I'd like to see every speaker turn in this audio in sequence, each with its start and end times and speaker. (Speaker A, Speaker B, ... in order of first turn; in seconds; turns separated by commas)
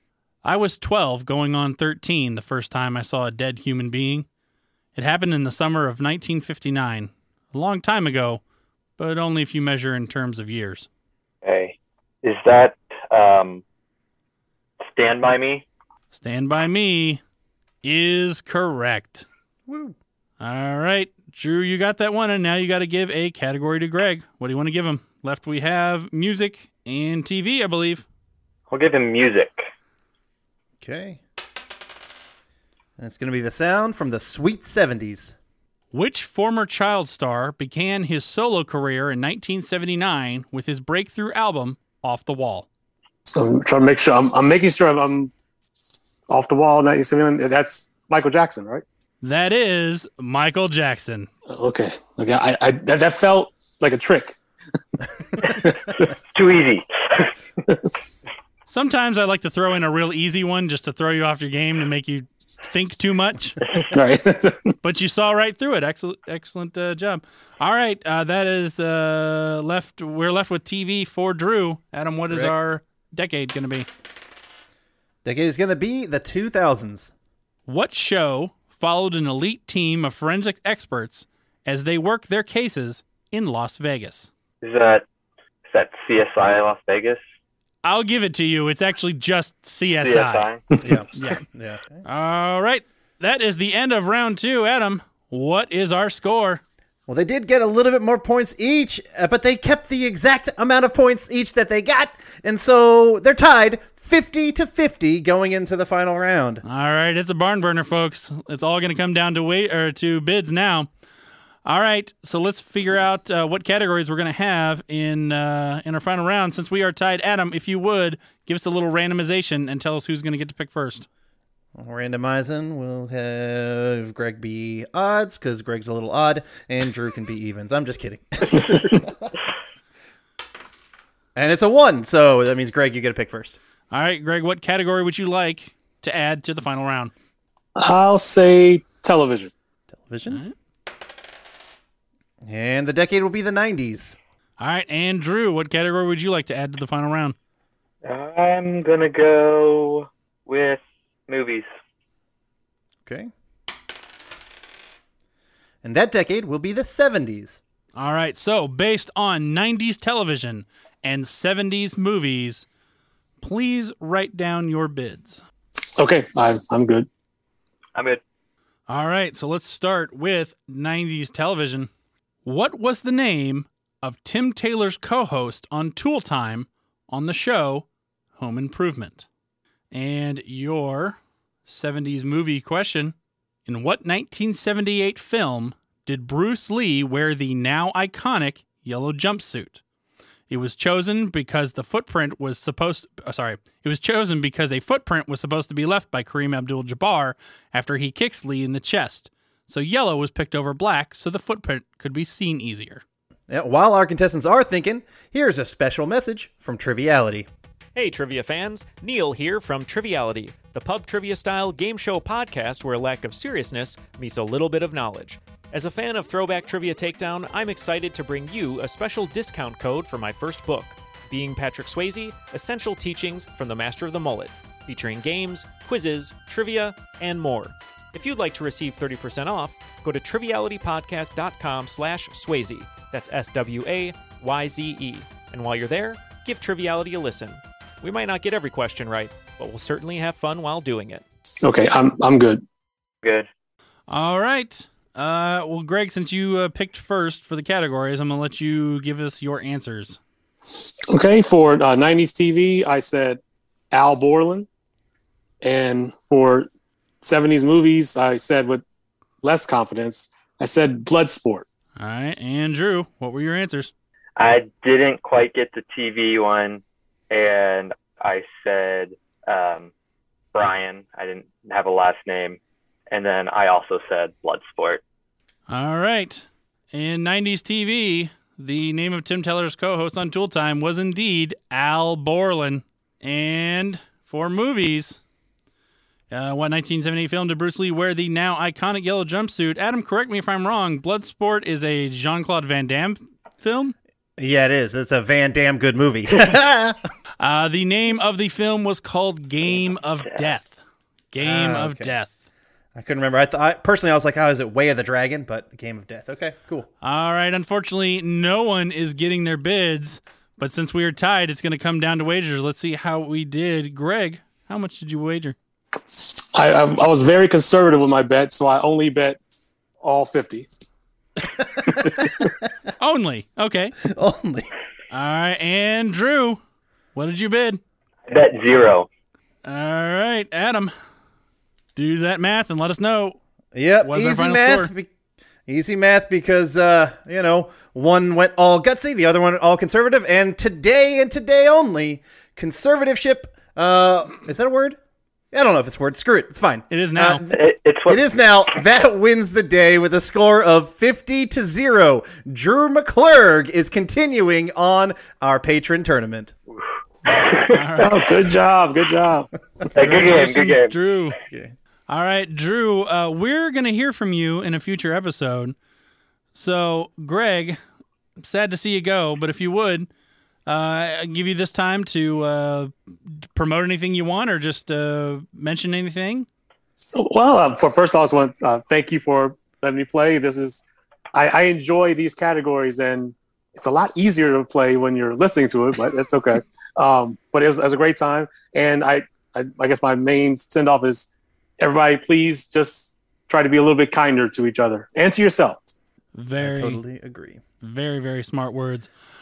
Speaker A: 0.4-4.2, Speaker A: 5.0-8.4, Speaker A: 9.0-10.9, Speaker B: 11.4-13.6, Speaker B: 14.9-15.7, Speaker A: 16.1-17.2, Speaker A: 17.8-19.2, Speaker C: 19.7-19.9, Speaker A: 20.4-28.1, Speaker B: 28.7-29.7, Speaker C: 30.8-31.2, Speaker C: 33.0-35.4, Speaker A: 35.9-42.7, Speaker D: 43.4-45.3, Speaker D: 46.3-48.8, Speaker A: 49.2-51.3, Speaker D: 51.5-54.4, Speaker D: 55.4-56.1, Speaker B: 55.4-55.7, Speaker B: 56.3-57.3, Speaker D: 57.6-58.2, Speaker A: 58.7-63.6, Speaker D: 63.9-64.7, Speaker A: 64.8-73.9, Speaker C: 75.2-77.1, Speaker A: 77.7-84.3, Speaker B: 84.6-85.0, Speaker B: 85.7-87.2, Speaker A: 87.8-90.5, Speaker B: 90.0-90.6, Speaker D: 90.7-91.4, Speaker C: 90.8-92.0, Speaker A: 92.0-96.6, Speaker C: 97.1-106.6, Speaker A: 106.6-110.9, Speaker A: 111.6-121.1, Speaker C: 121.7-129.3, Speaker D: 128.5-129.0, Speaker C: 131.3-133.6, Speaker A: 133.9-137.1, Speaker D: 137.8-139.5, Speaker C: 139.9-140.4, Speaker A: 140.3-140.5, Speaker C: 142.4-144.2, Speaker A: 144.6-147.3, Speaker B: 148.0-151.7, Speaker C: 153.1-153.3, Speaker C: 155.8-157.6, Speaker A: 157.9-162.7, Speaker A: 163.4-165.4, Speaker D: 165.9-167.1, Speaker B: 167.9-168.2, Speaker A: 168.9-171.9, Speaker A: 172.4-179.2, Speaker A: 179.9-183.1, Speaker A: 183.7-189.8, Speaker A: 190.5-203.0, Speaker C: 203.5-207.5, Speaker E: 207.9-241.2, Speaker D: 241.6-242.6, Speaker B: 243.2-243.5, Speaker A: 244.1-250.2, Speaker D: 250.6-253.4, Speaker D: 253.9-254.7, Speaker D: 255.6-256.7, Speaker D: 257.2-258.8, Speaker D: 259.4-261.6, Speaker A: 262.0-263.9, Speaker B: 264.4-269.9, Speaker B: 270.5-272.6, Speaker B: 273.1-275.0, Speaker A: 275.7-285.2, Speaker A: 286.3-293.9, Speaker C: 294.4-297.0, Speaker A: 297.4-300.8, Speaker A: 301.3-302.3, Speaker C: 301.4-302.1, Speaker C: 302.9-306.9, Speaker A: 307.0-315.6, Speaker D: 316.0-319.4, Speaker D: 320.0-320.7, Speaker C: 321.8-322.1, Speaker D: 321.9-322.4, Speaker A: 323.0-324.1, Speaker C: 324.1-324.7, Speaker A: 325.1-326.6, Speaker A: 327.1-327.8, Speaker B: 328.3-329.1, Speaker A: 329.6-330.9, Speaker A: 331.9-333.4, Speaker C: 333.7-335.1, Speaker A: 334.0-334.9, Speaker C: 335.7-345.0, Speaker C: 345.5-347.4, Speaker A: 346.9-347.5, Speaker B: 347.5-348.2, Speaker C: 348.1-356.5, Speaker B: 357.3-357.7, Speaker A: 357.6-358.4, Speaker D: 357.9-359.5, Speaker B: 359.9-360.9, Speaker A: 359.9-361.4, Speaker C: 361.5-361.7, Speaker A: 362.1-365.7, Speaker A: 366.5-367.8, Speaker A: 368.4-370.1, Speaker A: 370.6-376.5, Speaker D: 377.1-391.3, Speaker D: 391.8-395.8, Speaker A: 396.3-397.0, Speaker C: 396.6-397.6, Speaker A: 397.8-399.1